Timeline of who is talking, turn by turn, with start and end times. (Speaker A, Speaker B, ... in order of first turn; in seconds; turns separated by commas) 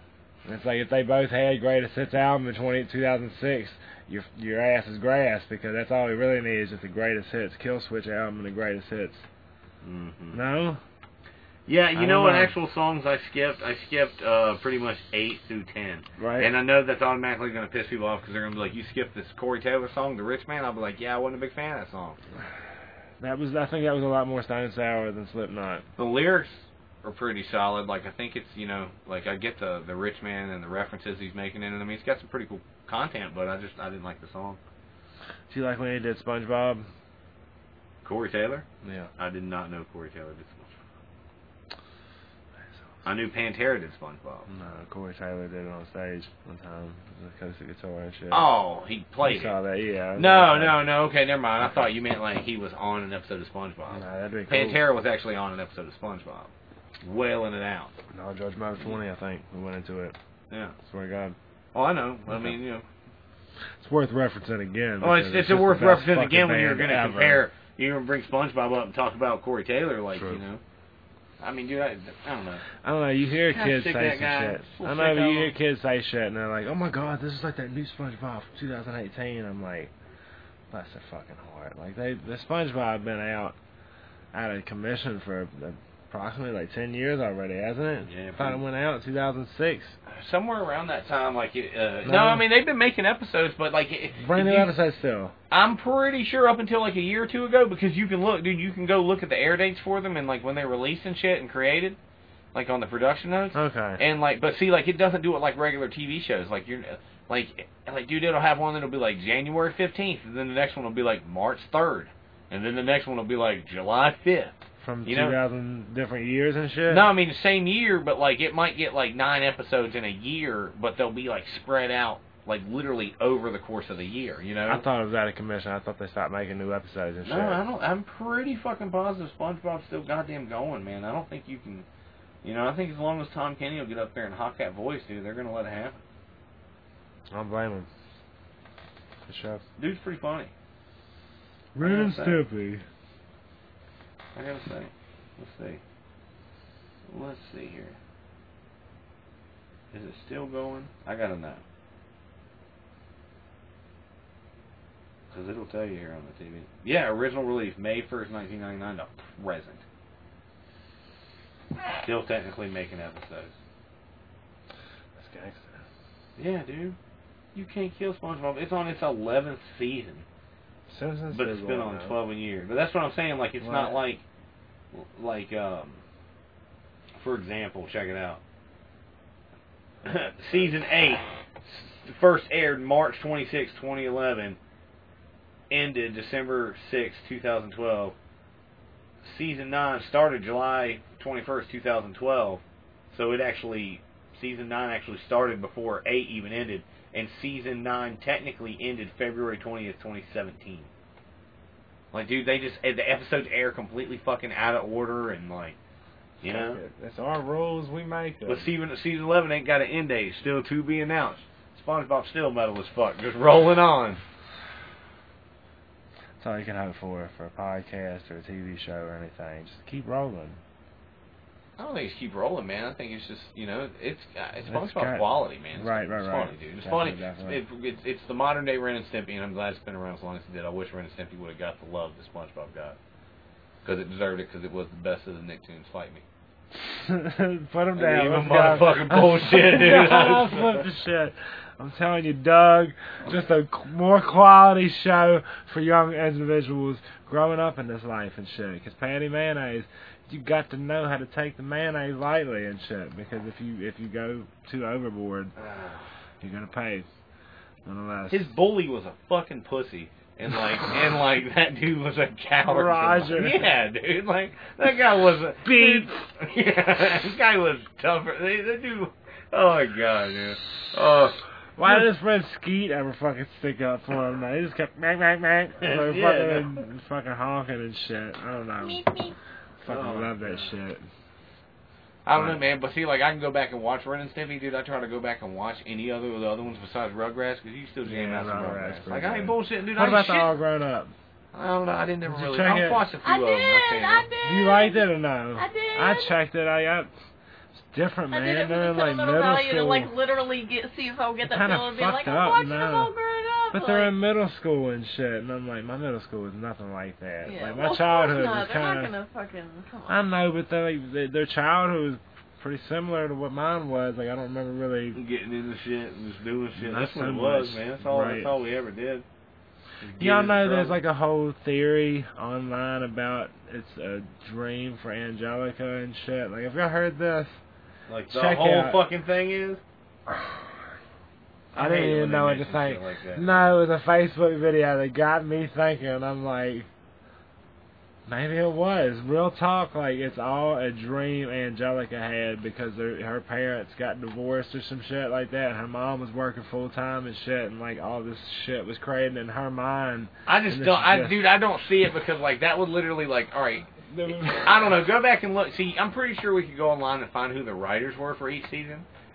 Speaker A: 0.5-9.3, Speaker B: 9.8-10.4, Speaker A: 10.3-10.8, Speaker B: 11.7-22.2, Speaker A: 11.9-12.5, Speaker A: 16.2-16.5, Speaker A: 23.2-25.9, Speaker B: 26.0-34.6, Speaker A: 35.5-36.9, Speaker B: 38.0-40.7, Speaker A: 38.8-39.1, Speaker A: 42.7-43.0, Speaker B: 43.0-44.5, Speaker A: 44.5-48.5, Speaker B: 48.3-49.5, Speaker A: 49.2-50.9, Speaker B: 50.2-56.5, Speaker A: 51.6-51.9, Speaker A: 53.9-54.8, Speaker B: 57.0-57.9, Speaker A: 58.1-60.2, Speaker B: 60.5-60.8, Speaker A: 60.8-61.4, Speaker B: 61.7-62.9, Speaker A: 62.3-62.6, Speaker A: 63.8-67.4, Speaker B: 65.0-70.6, Speaker A: 70.2-70.4, Speaker B: 71.4-72.7, Speaker A: 72.8-79.9, Speaker B: 73.5-75.5, Speaker A: 80.7-83.6, Speaker A: 84.3-90.0, Speaker B: 88.1-88.6, Speaker B: 90.1-94.7, Speaker A: 92.1-92.4, Speaker A: 94.2-95.3, Speaker B: 95.5-102.0, Speaker B: 102.5-115.4, Speaker A: 103.5-104.0, Speaker A: 114.8-117.1, Speaker B: 116.9-124.8, Speaker A: 124.7-127.6, Speaker B: 127.2-131.9, Speaker B: 132.4-136.0, Speaker A: 137.3-137.9, Speaker A: 139.3-139.6, Speaker B: 139.8-140.5, Speaker A: 141.7-142.8, Speaker B: 141.8-142.4, Speaker B: 144.3-145.8, Speaker B: 147.1-148.0, Speaker B: 149.9-151.6, Speaker B: 155.3-159.8, Speaker B: 162.0-163.5, Speaker A: 165.2-165.8, Speaker B: 166.4-167.0, Speaker B: 167.5-170.3, Speaker A: 170.9-172.2, Speaker B: 171.3-174.2, Speaker A: 173.6-174.0, Speaker B: 174.9-176.0, Speaker B: 177.2-178.4, Speaker B: 180.0-184.6, Speaker B: 185.7-188.2, Speaker B: 189.2-200.9, Speaker B: 202.1-205.8, Speaker B: 206.4-206.8, Speaker A: 206.4-208.7, Speaker B: 208.5-214.2, Speaker A: 216.4-220.6, Speaker B: 221.8-233.0, Speaker A: 224.7-227.6, Speaker B: 233.8-236.2, Speaker A: 236.8-255.5, Speaker B: 238.0-240.8, Speaker B: 255.6-256.1, Speaker A: 256.4-257.1, Speaker A: 257.9-258.5, Speaker B: 258.3-272.1, Speaker A: 262.7-263.7, Speaker A: 265.6-266.3, Speaker A: 271.8-279.1, Speaker B: 275.8-276.8, Speaker C: 278.8-279.4, Speaker B: 279.8-280.7, Speaker A: 279.8-281.0, Speaker B: 282.2-290.5, Speaker A: 282.4-282.6, Speaker A: 288.1-291.1, Speaker B: 291.5-294.3, Speaker A: 292.3-293.1, Speaker C: 293.2-296.3, Speaker A: 294.4-297.1, Speaker A: 297.8-300.1, Speaker C: 298.3-304.1, Speaker A: 301.4-303.1, Speaker A: 303.7-309.1, Speaker C: 307.5-310.2, Speaker A: 310.1-315.2, Speaker B: 315.1-319.2, Speaker A: 316.8-318.5, Speaker B: 320.0-321.0, Speaker A: 320.2-327.6, Speaker B: 328.1-329.8, Speaker A: 328.3-329.0, Speaker A: 330.3-330.6, Speaker B: 331.7-333.8, Speaker A: 331.8-336.9, Speaker A: 338.3-351.4, Speaker B: 350.5-359.1, Speaker A: 354.1-354.7